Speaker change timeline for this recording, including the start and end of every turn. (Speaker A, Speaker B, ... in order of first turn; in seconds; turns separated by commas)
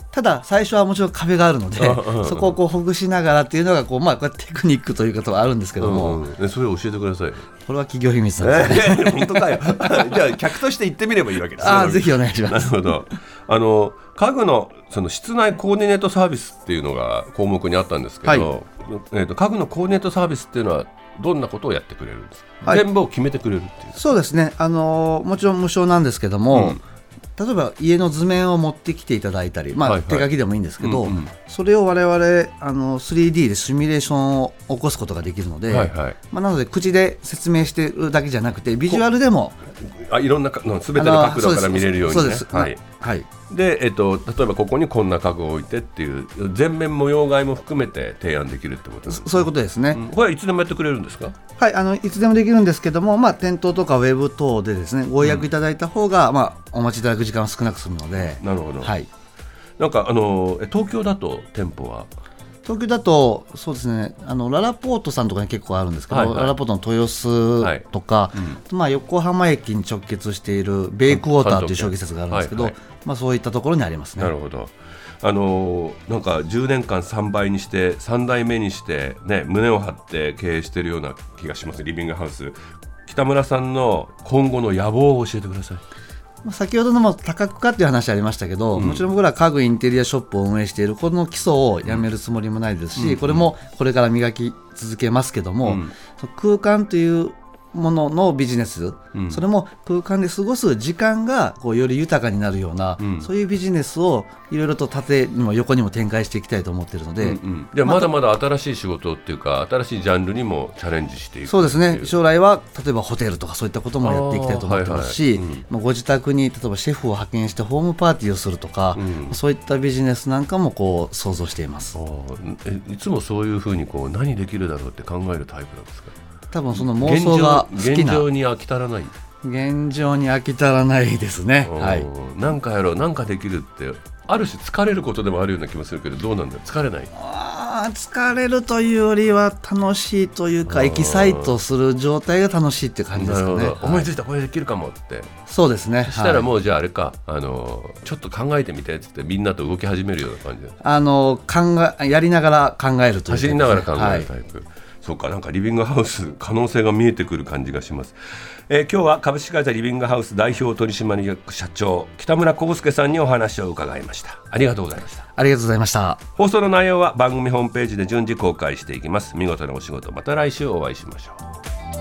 Speaker A: 0.1-6.2, Speaker B: 1.8-2.6, Speaker B: 5.8-7.5, Speaker A: 7.7-10.2, Speaker B: 8.4-24.1, Speaker A: 11.6-13.2, Speaker A: 24.0-26.8, Speaker B: 26.5-26.8, Speaker A: 27.4-39.6, Speaker B: 29.8-31.3, Speaker B: 35.7-36.2, Speaker B: 39.8-42.8, Speaker A: 41.0-43.3, Speaker B: 43.5-51.4, Speaker A: 49.1-50.0, Speaker A: 51.6-59.1, Speaker B: 55.2-55.5, Speaker B: 58.3-58.9, Speaker B: 59.8-62.1, Speaker A: 62.6-74.3, Speaker B: 66.1-66.6, Speaker B: 67.6-68.6, Speaker B: 71.1-72.8, Speaker B: 74.2-85.8, Speaker A: 86.4-108.1, Speaker B: 88.7-89.1, Speaker B: 93.0-93.5, Speaker B: 95.6-96.0, Speaker B: 99.1-99.4, Speaker B: 103.0-103.3, Speaker B: 107.2-112.2, Speaker A: 111.5-122.0, Speaker B: 114.0-115.6, Speaker B: 119.0-119.4, Speaker B: 121.9-126.2, Speaker A: 126.5-128.3, Speaker B: 126.7-129.1, Speaker A: 129.4-132.1, Speaker B: 131.6-137.1, Speaker A: 137.1-144.1, Speaker B: 140.7-141.6, Speaker B: 143.1-145.3, Speaker A: 145.5-146.5, Speaker B: 146.1-150.8, Speaker A: 150.8-154.3, Speaker B: 153.3-165.3, Speaker A: 165.3-166.2, Speaker B: 166.4-171.4